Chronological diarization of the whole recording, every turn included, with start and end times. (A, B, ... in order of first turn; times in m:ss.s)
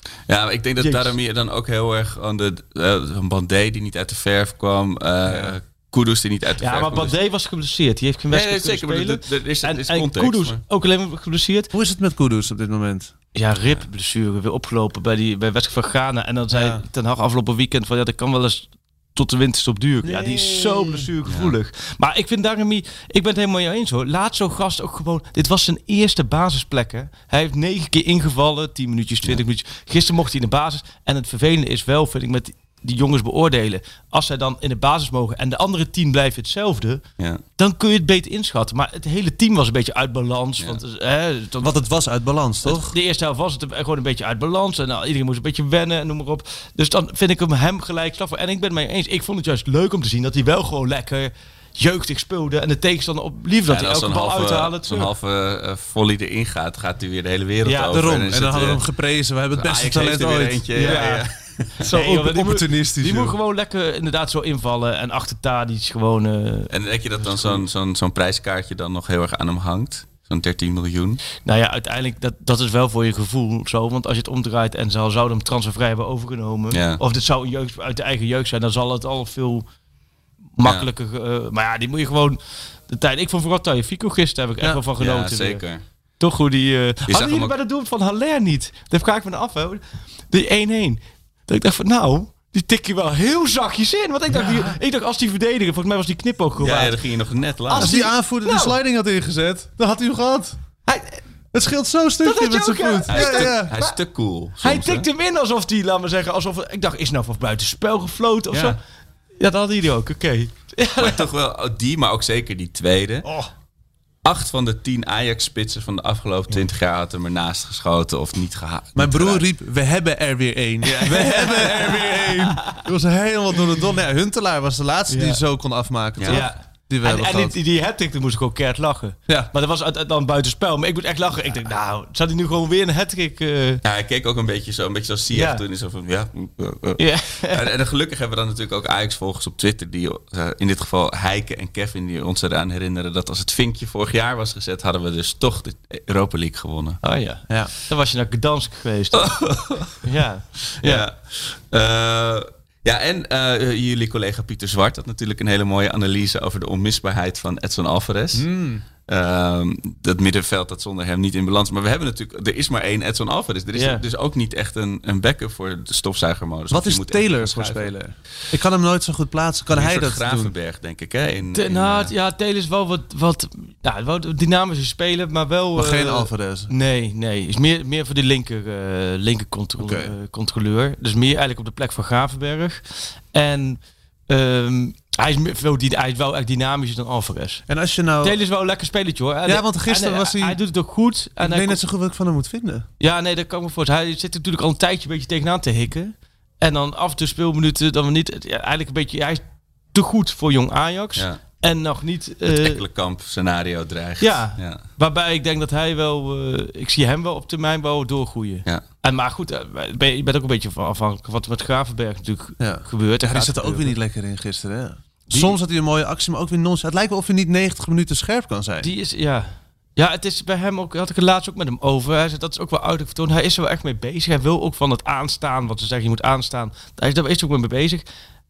0:00.3-0:07.1 A
0:00.8-0:01.1 B
0:05.3-0:05.6 C
0:06.6-0:11.7 B
0:08.3-0:10.6 A
0:11.7-0:13.1 C
0:13.4-0:37.0 B
0:16.5-0:16.8 C
0:20.0-0:21.1 C
0:21.3-0:21.5 A
0:37.6-0:41.8 B
0:41.6-0:43.0 C
0:42.6-0:55.1 B
0:53.7-0:58.8 A
0:57.6-0:58.0 B
0:57.9-1:01.2 C
0:59.6-1:01.7 A
1:00.8-1:01.2 B
1:01.8-1:06.7 B
1:01.8-1:03.4 C
1:06.7-1:11.2 A
1:11.4-1:19.7 B
1:16.7-1:17.0 A
1:20.6-1:22.4 B
1:22.9-1:25.6 B
1:25.0-1:25.8 A
1:26.2-1:37.0 B
1:27.1-1:27.5 A
1:36.6-1:38.0 A
1:37.7-1:38.8 B
1:37.8-1:40.6 C
1:40.9-1:41.2 B
1:41.5-1:43.7 C
1:42.2-1:44.0 B
1:43.1-1:45.1 A
1:44.6-1:48.8 B
1:49.4-1:51.3 B
1:51.0-1:53.3 A
1:54.2-1:59.4 A
1:59.0-2:07.6 C
2:00.8-2:02.0 A
2:01.4-2:02.8 B
2:05.1-2:05.4 B
2:06.2-2:06.4 A
2:06.3-2:13.8 B
2:13.8-2:27.0 A
2:15.3-2:15.6 B
2:17.0-2:17.6 B
2:27.0-2:29.4 B
2:29.1-2:30.0 A
2:30.0-2:31.1 B
2:30.8-2:38.5 A
2:38.3-2:38.8 C
2:39.1-2:47.9 A
2:43.8-2:44.0 B
2:46.7-2:50.5 C
2:49.7-2:52.1 A
2:51.5-3:02.8 B
2:55.8-2:56.7 C
2:59.8-3:00.1 C
3:03.3-3:07.6 B
3:07.7-3:08.4 C
3:08.2-3:11.8 B
3:09.5-3:10.6 C
3:11.4-3:12.9 C
3:13.0-3:19.4 B
3:19.9-3:22.8 B
3:22.5-3:24.8 A
3:24.2-3:34.0 B
3:32.6-3:38.9 C
3:35.3-3:35.6 B
3:38.8-3:48.0 B